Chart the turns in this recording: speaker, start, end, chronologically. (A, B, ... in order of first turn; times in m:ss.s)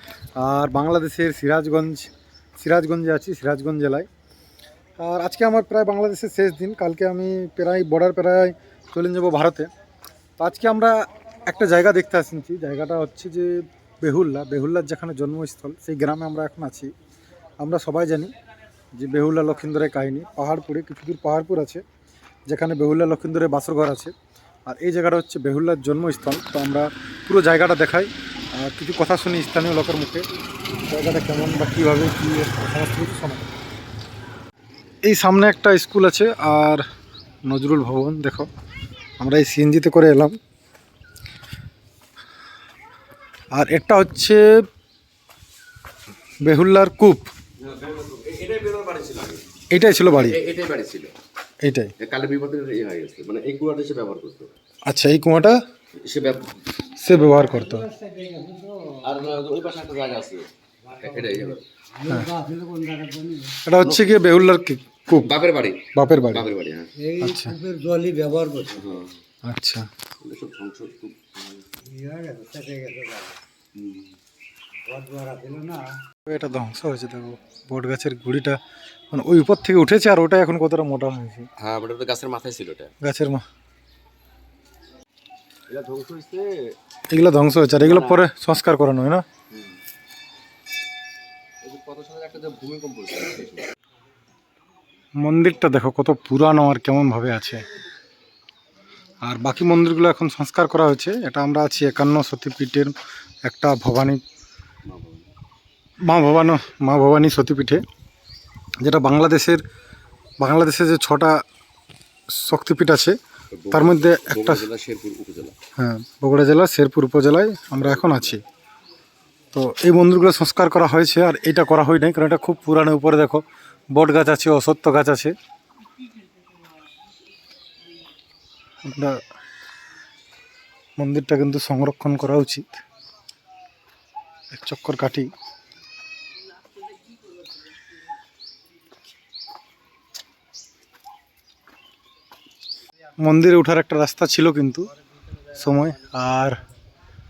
0:00.4-0:04.1 A
0:05.0-0:09.7 A
0:10.4-0:11.0 A
0:11.5-0:16.9 A
0:17.6-0:18.3 A
0:19.0-0:21.8 A
0:22.5-0:24.1 A
0:24.7-0:30.3 A
0:30.9-0:33.5 A
0:35.0-0:36.8 A
0:37.5-0:38.5 A
0:39.2-0:40.4 A
0:43.5-0:44.6 A
0:46.4-0:47.3 A
0:47.6-0:49.4 B
0:49.7-0:50.4 A
0:50.1-0:51.1 B
0:51.6-0:51.9 A
0:52.0-0:54.5 B
0:54.8-0:55.6 A
0:56.0-0:56.6 B
0:57.0-0:57.9 A
0:57.4-0:59.0 C
0:59.0-1:01.6 B
1:01.0-1:01.4 C
1:02.0-1:03.6 C
1:03.6-1:05.3 A
1:05.2-1:06.9 B
1:05.9-1:06.5 A
1:07.0-1:08.8 C
1:07.2-1:07.6 A
1:08.7-1:09.2 B
1:09.4-1:09.9 A
1:10.2-1:11.7 B
1:11.9-1:13.4 C
1:13.8-1:14.2 B
1:14.9-1:15.8 C
1:16.3-1:18.6 A
1:19.1-1:21.5 A
1:21.6-1:22.9 B
1:23.0-1:23.4 A
1:25.7-1:26.8 B
1:27.1-1:29.2 A
1:27.8-1:28.2 B
1:29.5-1:29.8 B
1:31.6-1:33.7 B
1:35.2-1:37.6 A
1:39.2-1:44.2 A
1:44.8-1:45.3 B
1:46.0-1:47.8 A
1:48.8-1:49.6 A
1:50.4-1:51.4 A
1:52.3-1:53.2 A
1:53.5-1:55.6 B
1:53.7-1:54.6 A
1:55.8-1:58.4 A
1:57.8-1:58.4 B
1:59.5-2:05.3 A
2:08.8-2:09.2 A
2:11.0-2:12.8 A
2:14.5-2:15.3 A
2:23.2-2:24.9 A
2:25.5-2:26.6 A